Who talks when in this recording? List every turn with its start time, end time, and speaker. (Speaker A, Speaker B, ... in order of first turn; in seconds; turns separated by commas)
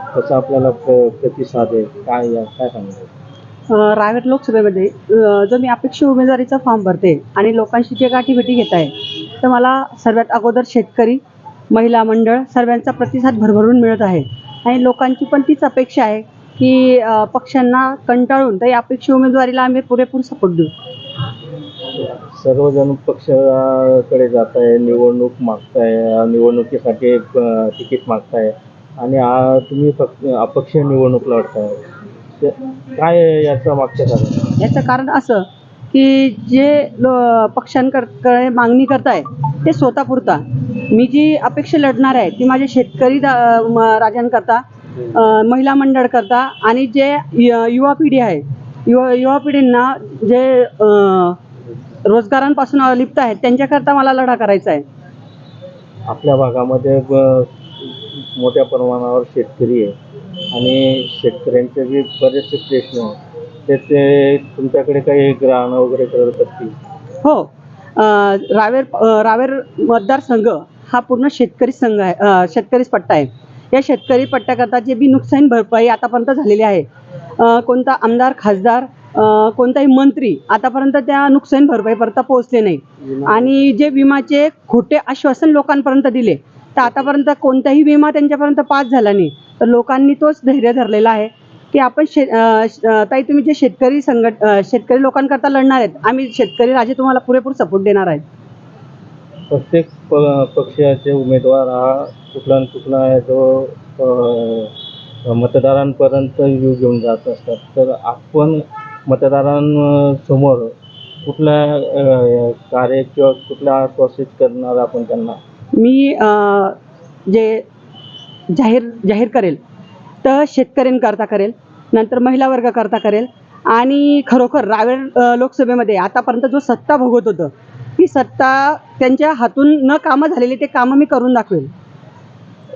Speaker A: 0.1-3.1, Speaker B: 3.7-11.2, Speaker B: 11.7-20.7, Speaker A: 21.9-31.9, Speaker A: 32.4-34.5, Speaker B: 34.6-51.4, Speaker B: 52.0-54.8, Speaker A: 56.0-59.9, Speaker A: 60.5-66.7, Speaker B: 67.2-76.8, Speaker B: 77.4-98.2, Speaker A: 99.5-115.4, Speaker B: 115.8-117.6, Speaker B: 118.5-119.6, Speaker B: 120.2-131.7